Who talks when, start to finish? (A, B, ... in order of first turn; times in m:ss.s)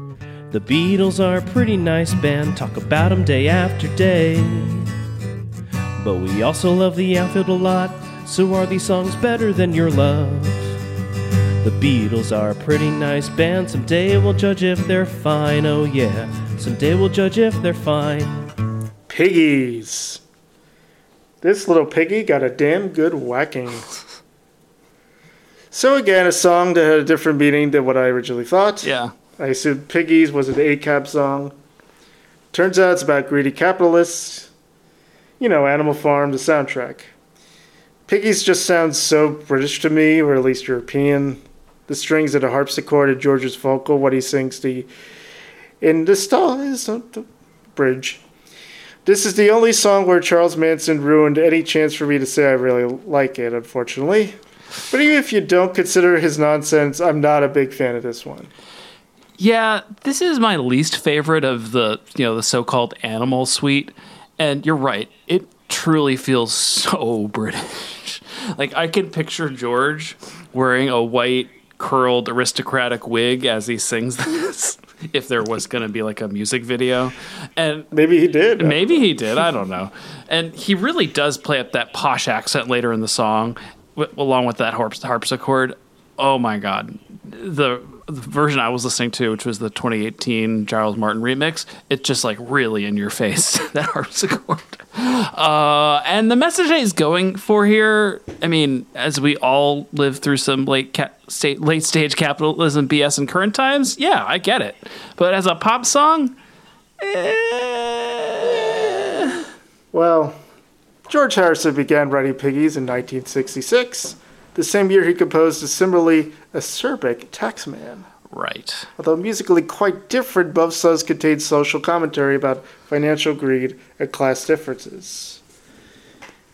0:00.5-0:04.9 A
0:06.0-0:10.8 A
0:11.6-0:18.4 A
0:19.1-0:20.2 B
0:21.4-0:23.9 B
0:25.7-0:31.5 B
0:28.8-0:29.1 C
0:32.5-0:34.5 B
0:35.4-0:37.1 B
0:38.1-0:44.9 B
0:45.8-0:48.2 B
0:49.0-0:54.4 B
0:54.9-0:58.5 B
0:59.4-1:17.9 C
1:17.9-1:19.0 B
1:18.6-1:46.3 C
1:47.0-1:49.4 C
1:49.9-1:50.4 B
1:51.1-1:58.1 B
1:58.3-1:58.9 C
1:59.0-2:05.4 B